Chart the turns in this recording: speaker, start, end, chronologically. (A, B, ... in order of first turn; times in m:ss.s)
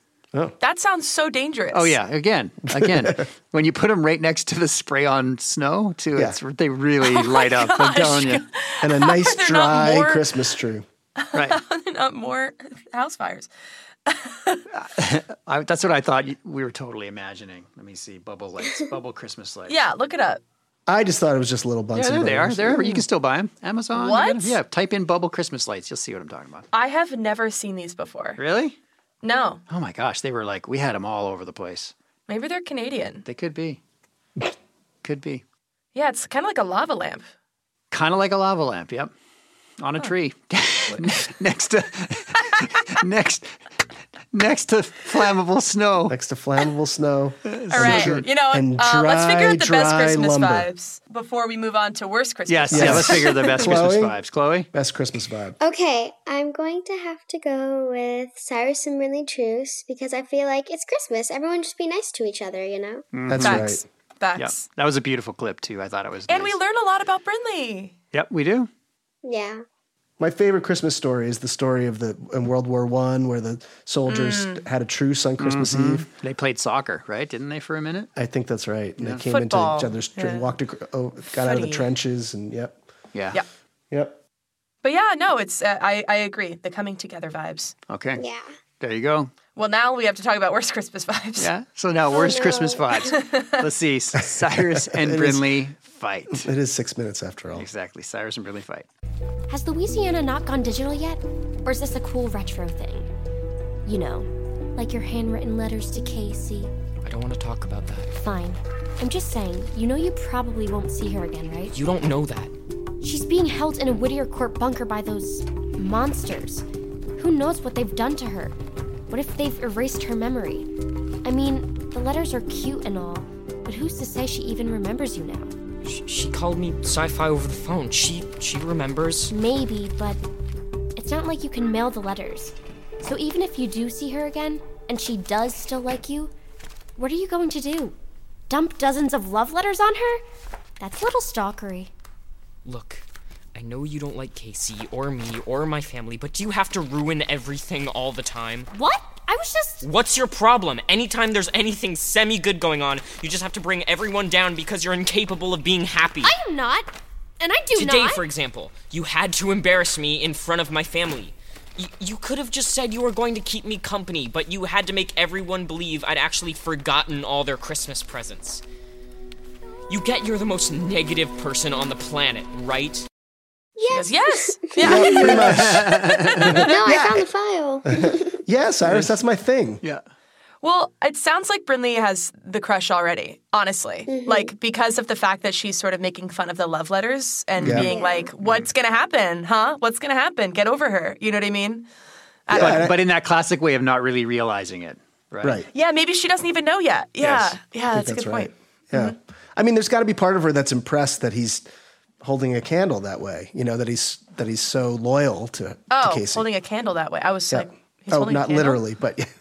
0:00.6-0:02.0 A
0:01.7-0:08.4 B
0:02.7-0:03.2 C
0:07.0-0:10.4 A
0:08.8-0:10.8 C
0:11.2-0:13.5 A
0:11.3-0:11.6 B
0:14.1-0:14.6 A
0:14.7-0:19.8 B
0:19.7-0:20.4 A
0:20.9-0:23.0 C
0:21.9-0:26.6 B
0:23.9-0:24.6 A
0:26.7-0:28.4 A
0:28.4-0:28.8 B
0:29.2-0:29.6 A
0:29.7-0:31.9 B
0:32.3-0:33.2 A
0:33.2-0:33.8 B
0:35.0-0:35.4 B
0:35.9-0:37.3 A
0:37.9-0:39.1 B
0:39.8-0:43.6 B
0:44.3-0:46.1 B
0:46.1-0:50.7 C
0:47.5-0:48.2 B
0:47.7-0:53.7 A
0:52.5-0:54.7 B
0:52.7-0:54.2 C
0:54.7-0:55.6 C
0:55.6-1:03.0 D
1:03.1-1:03.7 B
1:03.3-1:03.8 C
1:03.4-1:04.6 A
1:04.4-1:06.6 B
1:06.3-1:07.9 A
1:08.1-1:08.7 B
1:09.2-1:09.6 D
1:10.2-1:16.0 C
1:14.1-1:14.6 A
1:15.4-1:18.1 B
1:18.1-1:22.8 C
1:19.0-1:19.2 B
1:19.3-1:20.5 A
1:21.4-1:21.9 A
1:23.1-1:23.4 B
1:23.9-1:24.2 C
1:24.8-1:27.7 A
1:27.9-1:28.2 B
1:28.2-1:28.5 D
1:28.8-1:29.3 B
1:29.5-1:31.5 A
1:31.4-1:36.5 B
1:32.1-1:33.0 D
1:33.1-1:33.7 A
1:34.6-1:35.5 C
1:36.3-1:37.7 C
1:37.5-1:38.9 B
1:39.5-1:43.1 E
1:43.8-1:46.7 E
1:47.0-1:48.1 F
1:48.1-1:51.7 E
1:51.7-1:52.5 F
1:53.0-1:56.6 E
1:57.2-1:58.5 E
1:59.1-2:00.7 E
2:01.2-2:05.5 E
2:05.8-2:09.3 F
2:09.3-2:10.2 E
2:11.0-2:16.3 E
2:17.0-2:17.9 E
2:18.5-2:20.2 E
2:20.8-2:21.9 E
2:22.6-2:23.0 F
2:23.5-2:28.7 F
2:28.7-2:29.8 E
2:29.8-2:36.3 F
2:36.2-2:36.9 E
2:37.4-2:38.2 E
2:37.7-2:48.6 F
2:49.9-2:53.0 F
2:53.8-2:55.4 D
2:53.9-2:57.0 A
2:54.8-2:56.6 C
2:55.1-2:56.6 B
2:56.6-2:58.4 D
2:57.9-2:59.8 C
2:58.8-2:59.1 B
3:00.6-3:11.9 A
3:04.1-3:04.5 D
3:07.6-3:07.9 B
3:07.6-3:07.9 C
3:07.8-3:08.3 D
3:12.5-3:12.9 A
3:12.5-3:12.9 C
3:12.5-3:15.6 B
3:15.4-3:15.7 C
3:15.7-3:19.1 A
3:17.2-3:17.6 B
3:17.9-3:21.7 C
3:22.2-3:26.4 C
3:25.9-3:28.8 A
3:27.5-3:29.3 C